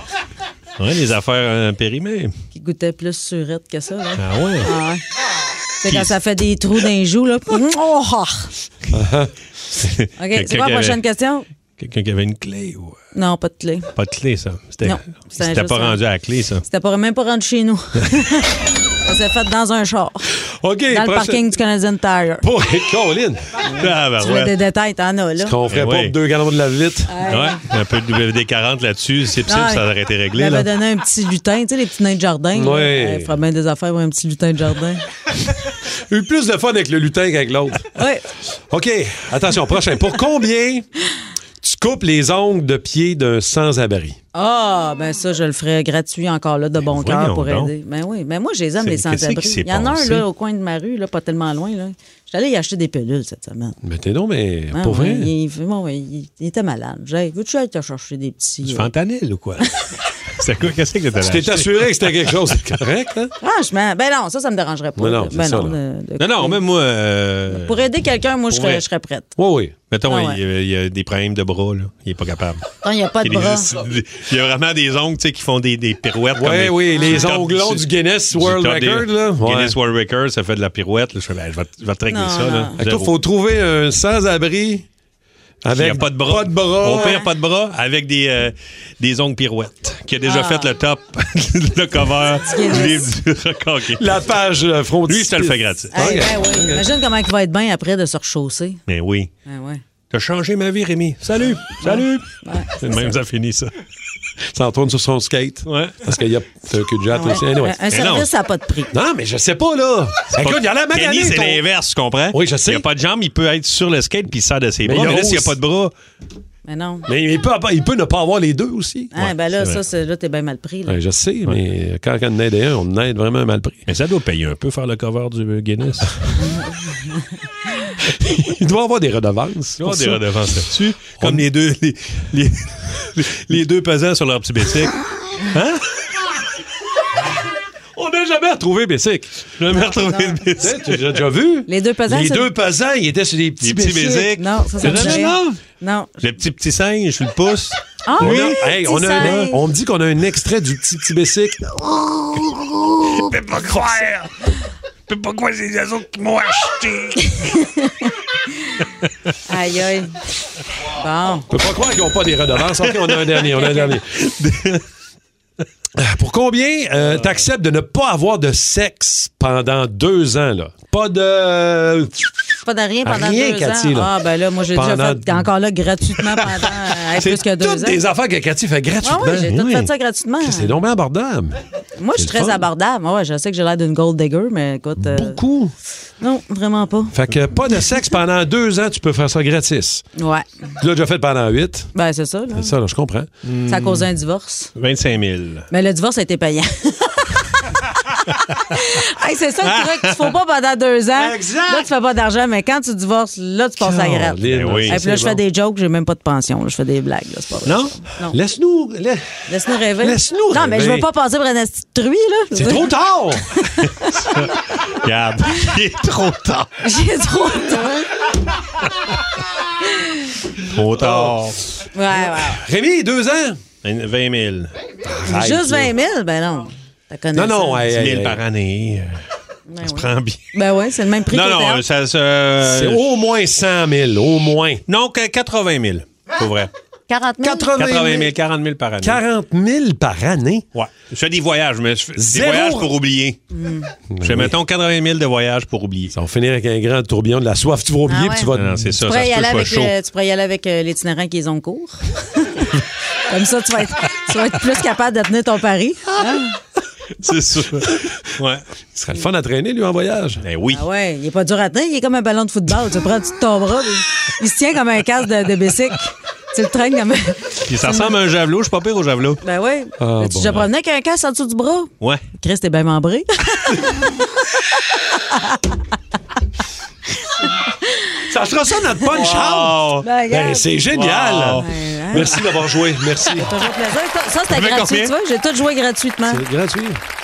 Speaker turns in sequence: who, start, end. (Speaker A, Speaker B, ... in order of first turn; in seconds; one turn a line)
Speaker A: 0.8-2.3
Speaker B: 2.5-5.0
Speaker A: 4.2-4.7
Speaker B: 5.8-8.5
Speaker A: 5.9-6.2
Speaker C: 8.9-9.3
Speaker A: 9.8-11.0
Speaker B: 10.2-11.5
Speaker A: 11.8-13.0
Speaker B: 13.1-13.9
Speaker A: 13.9-16.6
Speaker B: 14.8-16.0
Speaker B: 16.6-20.3
Speaker C: 20.4-21.4
Speaker B: 20.9-22.5
Speaker C: 22.4-23.6
Speaker B: 23.6-25.6
Speaker A: 23.8-24.5
Speaker C: 25.4-27.1
Speaker A: 25.7-26.1
Speaker B: 27.1-27.6
Speaker A: 27.2-30.7
Speaker B: 29.5-35.0
Speaker C: 32.5-33.4
Speaker C: 35.9-37.9
Speaker B: 37.9-38.3
Speaker C: 38.7-40.9
Speaker C: 41.6-44.2
Speaker B: 44.3-53.8
Speaker A: 46.8-47.7
Speaker A: 48.8-50.3
Speaker C: 53.8-55.3
Speaker B: 54.7-58.9
Speaker A: 58.6-59.7
Speaker A: 60.3-62.2
Speaker C: 61.2-63.3
Speaker B: 63.4-66.6
Speaker C: 65.0-65.8
Speaker A: 66.2-67.9
Speaker B: 67.5-69.3
Speaker A: 68.5-68.8
Speaker C: 69.4-69.8
Speaker A: 69.9-72.6
Speaker B: 70.1-70.4
Speaker B: 72.8-73.8
Speaker A: 73.2-83.1
Speaker C: 76.3-79.8
Speaker B: 77.0-77.3
Speaker B: 82.1-82.8
Speaker C: 82.8-84.9
Speaker C: 85.6-87.2
Speaker A: 85.7-94.2
Speaker B: 86.9-87.3
Speaker B: 90.2-90.7
Speaker B: 92.4-93.1
Speaker C: 94.0-96.9
Speaker A: 95.1-96.2
Speaker B: 95.9-98.8
Speaker A: 98.9-99.3
Speaker B: 99.5-99.8
Speaker A: 100.1-102.2
Speaker C: 101.2-102.2
Speaker B: 101.9-103.2
Speaker A: 102.8-103.7
Speaker C: 104.5-107.8
Speaker A: 105.7-106.2
Speaker B: 107.1-109.0
Speaker A: 107.9-108.3
Speaker C: 108.9-111.6
Speaker A: 110.3-115.9
Speaker C: 112.3-112.9
Speaker C: 114.8-115.6
Speaker B: 116.7-117.1
Speaker C: 117.1-119.1
Speaker B: 119.1-121.0
Speaker A: 119.2-119.8
Speaker C: 120.9-123.8
Speaker A: 123.9-126.2
Speaker B: 126.4-127.9
Speaker C: 128.0-130.2
Speaker A: 129.8-136.1
Speaker C: 131.2-131.4
Speaker C: 138.0-139.4
Speaker A: 139.6-141.2
Speaker B: 139.7-140.4
Speaker C: 140.6-145.5
Speaker B: 141.7-142.5
Speaker A: 143.6-145.6
Speaker B: 144.4-146.3
Speaker A: 146.2-148.6
Speaker B: 148.0-149.7
Speaker C: 148.2-151.8
Speaker A: 151.9-154.5
Speaker A: 155.1-157.5
Speaker B: 157.2-158.9
Speaker B: 159.5-160.2
Speaker B: 160.8-161.5
Speaker C: 161.5-164.1
Speaker A: 162.7-164.8
Speaker B: 163.6-164.0
Speaker C: 166.0-172.4
Speaker A: 167.0-167.5
Speaker B: 172.7-178.0
Speaker C: 173.1-174.2
Speaker C: 174.7-175.5
Speaker C: 176.0-179.6
Speaker B: 179.0-180.8
Speaker A: 179.4-179.9
Speaker C: 180.4-181.6
Speaker B: 182.0-185.4
Speaker C: 182.2-182.7
Speaker C: 185.0-185.7
Speaker B: 186.2-187.2
Speaker C: 187.1-190.1
Speaker B: 190.2-190.7
Speaker C: 190.8-191.9
Speaker B: 191.9-192.8
Speaker C: 192.5-193.3
Speaker A: 193.4-194.1
Speaker B: 193.7-194.7
Speaker A: 194.8-195.7
Speaker B: 195.7-208.4
Speaker A: 199.6-200.3
Speaker C: 201.2-201.9
Speaker C: 203.8-205.4
Speaker A: 204.5-205.0
Speaker A: 207.7-207.9
Speaker C: 208.2-209.2
Speaker B: 209.5-214.6
Speaker C: 210.0-211.1
Speaker C: 212.5-213.7
Speaker A: 214.2-216.7
Speaker B: 216.8-218.3
Speaker B: 219.8-220.5
Speaker A: 220.6-221.9
Speaker C: 220.9-221.4
Speaker B: 221.9-222.6
Speaker C: 222.1-223.6
Speaker A: 223.8-224.7
Speaker C: 225.0-225.9
Speaker B: 225.2-227.9
Speaker C: 227.3-228.4
Speaker A: 227.9-229.2
Speaker B: 229.7-231.8
Speaker A: 229.8-230.5
Speaker A: 231.2-233.1
Speaker C: 232.6-234.8
Speaker A: 234.9-236.7
Speaker B: 237.1-237.7
Speaker C: 237.4-238.3
Speaker A: 237.7-239.2
Speaker C: 239.0-240.7
Speaker A: 240.7-243.4
Speaker C: 242.2-242.9
Speaker B: 243.5-243.9
Speaker C: 244.1-244.6
Speaker A: 244.2-246.2
Speaker C: 246.1-248.9
Speaker B: 248.1-256.6
Speaker A: 248.5-249.9
Speaker A: 257.2-258.6
Speaker C: 258.9-260.4
Speaker A: 260.4-260.8
Speaker B: 260.7-268.2
Speaker A: 267.7-269.4
Speaker B: 269.4-275.8
Speaker C: 270.0-270.7
Speaker B: 277.2-278.3
Speaker C: 278.2-283.5
Speaker A: 279.0-280.1
Speaker B: 280.0-280.7
Speaker A: 280.9-282.6
Speaker B: 281.5-282.3
Speaker B: 283.3-286.4
Speaker A: 284.5-285.1
Speaker C: 286.3-287.0